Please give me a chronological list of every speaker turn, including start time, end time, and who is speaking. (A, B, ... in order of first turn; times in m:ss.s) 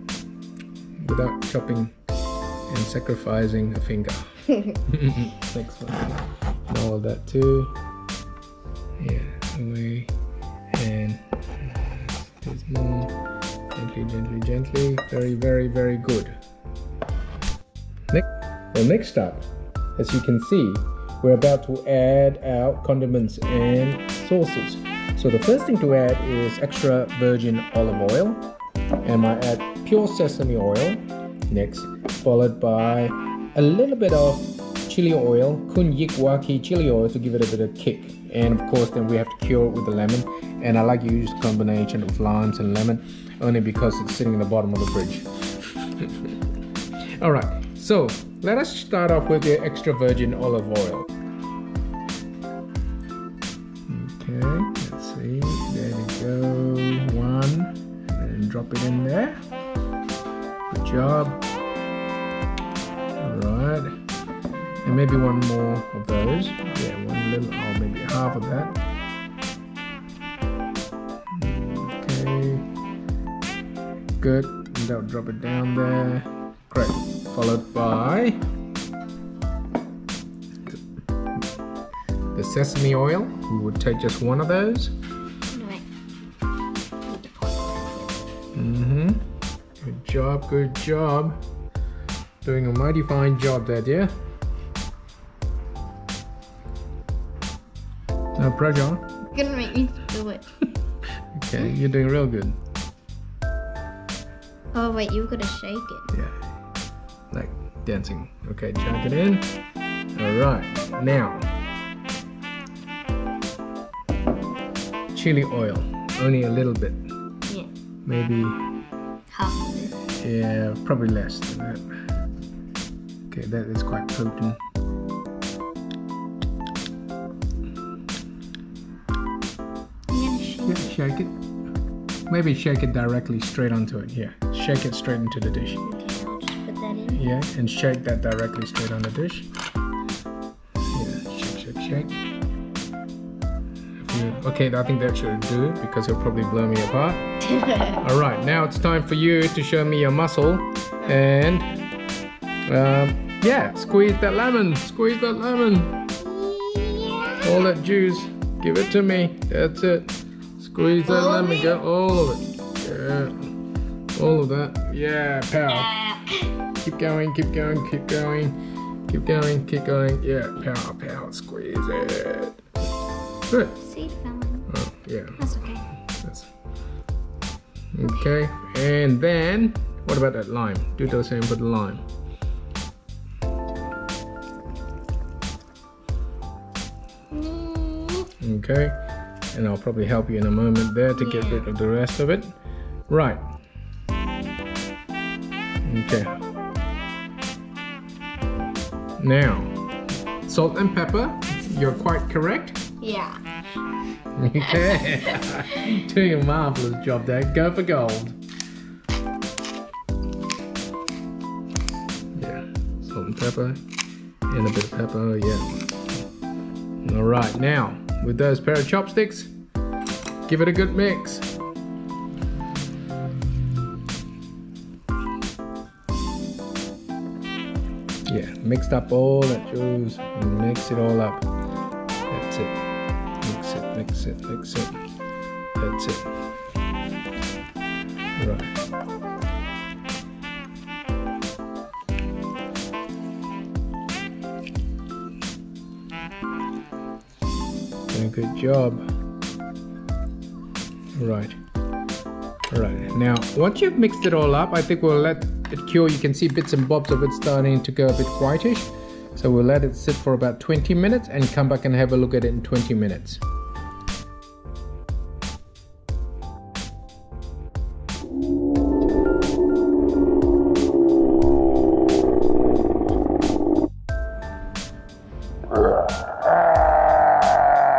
0:01.0-0:01.9 A
0:02.7-0:07.7 A
0:09.0-0:10.1 A
0:10.7-0:11.2 A
0:12.4-0:13.1 A
0:13.8-0:16.4 A
0:18.1-0:28.5 A
0:29.0-0:45.3 A
0:46.0-0:46.3 A
0:47.2-0:51.1 A
0:53.9-0:59.4 A
1:00.7-1:01.4 A
1:03.2-1:03.9 A
1:04.8-1:08.8 A
1:11.3-1:12.7 A
1:14.2-1:18.4 A
1:22.3-1:25.0 A
1:25.5-1:25.8 B
1:27.1-1:28.3 B
1:28.5-1:29.3 A
1:29.8-1:31.4 A
1:32.4-1:34.1 A
1:38.4-1:39.1 A
1:39.3-1:40.5 B
1:41.3-1:42.6 A
1:44.7-1:46.1 B
1:47.3-1:49.5 A
1:50.2-1:51.5 A
1:55.1-1:57.0 A
1:58.0-1:58.6 A
1:59.3-2:00.0 B
2:00.1-2:01.8 A
2:03.3-2:04.6 A
2:10.1-2:10.9 B
2:10.7-2:11.4 A
2:12.3-2:15.8 A
2:15.8-2:17.3 B
2:17.1-2:19.5 A
2:20.9-2:22.2 A
2:24.0-2:31.7 A
2:32.7-2:36.0 A
2:36.2-2:37.5 B
2:37.4-2:43.5 A
2:41.1-2:41.7 B
2:44.1-2:46.0 A
2:45.7-2:46.4 B
2:46.8-2:48.6 A
2:49.1-2:52.6 A
2:53.5-2:53.8 A
2:53.8-2:54.7 B
2:54.7-2:55.5 A
2:55.4-2:55.8 B
2:56.2-2:56.5 A
2:57.9-3:02.0 A
3:07.3-3:08.3 B
3:08.4-3:09.0 A
3:09.5-3:12.5 A
3:11.1-3:11.7 B
3:13.1-3:13.4 A
3:15.8-3:16.3 A
3:19.2-3:19.7 A
3:20.4-3:22.8 A
3:23.0-3:23.4 B
3:24.4-3:28.4 A
3:32.3-3:33.8 A
3:34.5-3:35.9 A
3:37.0-3:39.5 A
3:40.5-3:41.5 A
3:48.3-3:51.5 A
3:52.3-3:52.9 A
3:53.4-3:55.0 A
3:55.8-3:56.3 A
3:58.4-3:58.8 A
4:08.1-4:09.0 A
4:11.2-4:11.6 A
4:12.7-4:23.4 A